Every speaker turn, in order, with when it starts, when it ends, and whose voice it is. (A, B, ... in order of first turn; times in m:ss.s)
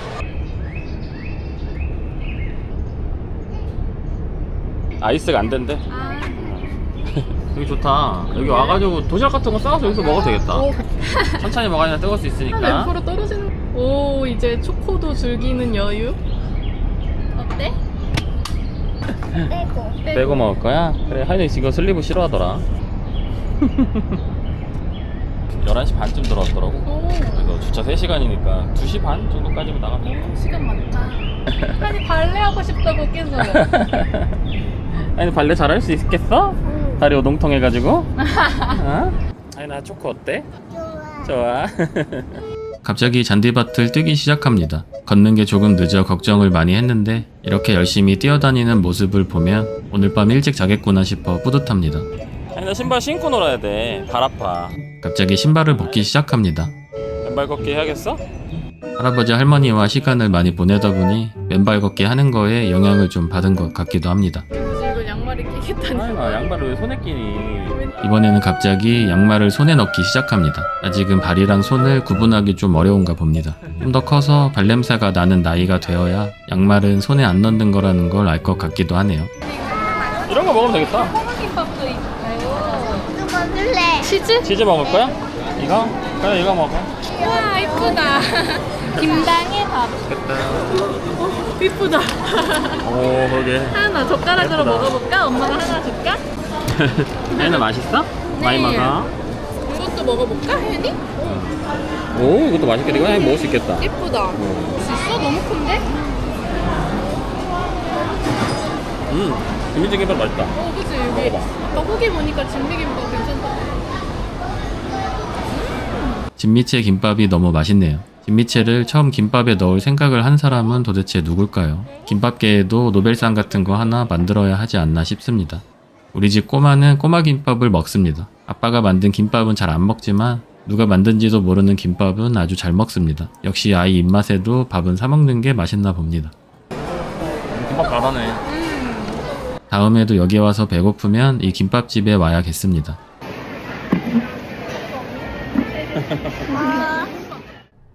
0:05.0-0:05.8 A
0:05.9-0:06.6 B
0:06.5-0:10.7 A
0:08.3-0:08.8 B
0:10.4-0:11.4 B
0:11.3-0:12.9 A
0:12.5-0:16.2 B
0:17.3-0:17.8 B
0:19.5-0:20.0 C
0:20.0-0:20.4 B
0:20.1-0:22.6 A
0:23.6-0:24.2 A
0:25.6-0:30.3 A
0:26.8-0:27.4 B
0:30.0-0:33.7 B
0:31.5-0:31.8 A
0:33.4-0:34.3 A
0:35.0-0:38.1 A
0:36.6-0:37.0 C
0:38.3-0:38.7 B
0:38.7-0:40.5 A
0:40.7-0:41.4 C
0:41.2-0:56.7 A
0:57.2-0:58.2 A
0:59.0-1:04.4 A
1:04.5-1:06.5 B
1:05.9-1:19.3 A
1:07.7-1:08.1 B
1:19.5-1:20.2 B
1:20.3-1:21.2 A
1:20.8-1:23.1 B
1:22.5-1:24.1 C
1:24.0-1:24.5 B
1:24.4-1:26.9 A
1:27.0-1:28.2 C
1:27.2-1:30.0 B
1:30.0-1:31.1 A
1:30.6-1:32.8 B
1:32.8-1:35.0 A
1:33.7-1:36.2 B
1:36.7-1:39.1 A
1:37.3-1:37.6 B
1:38.3-1:39.0 B
1:39.6-1:41.1 B
1:41.2-1:41.6 A
1:42.1-1:44.8 A
1:42.8-1:45.9 B
1:49.1-1:51.7 A
1:50.5-1:53.8 B
1:55.6-1:56.2 B
1:56.4-2:16.3 A
2:17.5-2:18.4 A
2:18.5-2:19.0 B
2:19.7-2:23.0 A
2:24.8-2:25.3 B
2:26.0-2:26.5 A
2:26.4-2:27.2 B
2:26.5-2:27.1 C